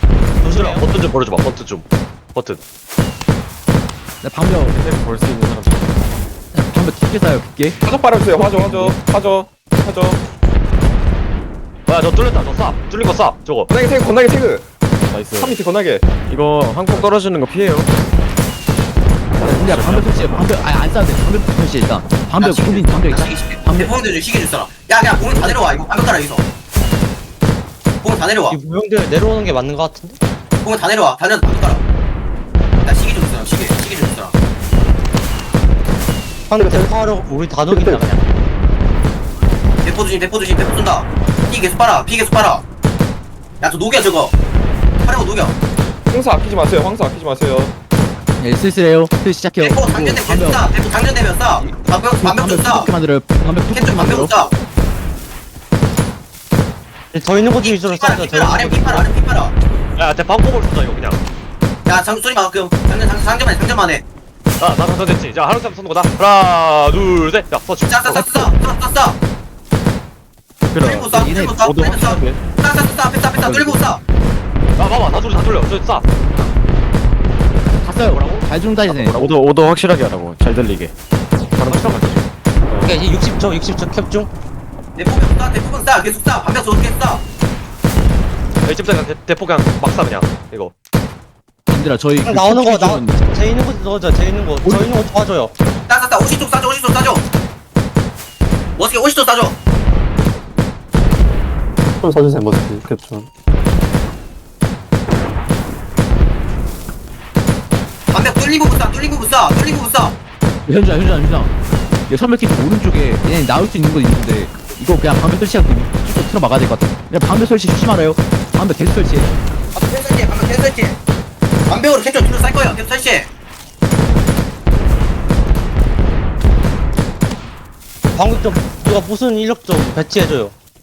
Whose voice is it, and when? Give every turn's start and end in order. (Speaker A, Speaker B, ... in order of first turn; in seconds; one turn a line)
Speaker A: 0.4-0.8
Speaker B: 0.5-2.6
Speaker C: 4.2-4.7
Speaker D: 4.7-5.9
Speaker C: 6.5-7.8
Speaker E: 7.8-10.2
Speaker C: 8.4-8.9
Speaker B: 11.9-13.7
Speaker E: 13.7-14.7
Speaker D: 15.1-15.6
Speaker E: 15.4-16.1
Speaker D: 16.2-17.9
Speaker C: 19.4-23.9
Speaker B: 19.7-20.4
Speaker D: 19.7-20.4
Speaker F: 22.4-26.4
Speaker F: 28.0-28.6
Speaker A: 28.5-30.2
Speaker F: 30.6-31.8
Speaker F: 32.8-34.4
Speaker A: 36.5-38.2
Speaker G: 36.5-36.9
Speaker G: 37.7-38.1
Speaker F: 39.8-42.6
Speaker F: 43.6-44.3
Speaker F: 45.0-45.5
Speaker E: 46.1-47.7
Speaker C: 48.4-50.7
Speaker F: 49.6-52.9
Speaker C: 51.6-54.3
Speaker F: 53.7-54.5
Speaker A: 57.1-59.1
Speaker F: 57.6-59.5
Speaker B: 60.0-61.2
Speaker F: 61.9-64.0
Speaker B: 64.6-68.5
Speaker F: 67.8-69.2
Speaker D: 70.7-72.4
Speaker F: 70.8-74.0
Speaker C: 71.1-72.2
Speaker D: 73.4-73.7
Speaker B: 74.8-76.0
Speaker C: 77.8-79.2
Speaker F: 78.1-78.4
Speaker D: 78.9-80.9
Speaker D: 81.5-83.0
Speaker C: 81.7-82.0
Speaker A: 82.8-84.3
Speaker F: 85.0-87.2
Speaker B: 88.7-90.7
Speaker C: 91.7-93.2
Speaker A: 92.2-95.5
Speaker C: 94.6-94.9
Speaker F: 95.9-97.2
Speaker F: 98.8-99.5
Speaker G: 102.0-103.3
Speaker F: 108.1-110.2
Speaker C: 110.7-111.5
Speaker C: 112.1-119.3
Speaker F: 119.7-121.0
Speaker F: 121.7-123.3
Speaker A: 128.1-130.5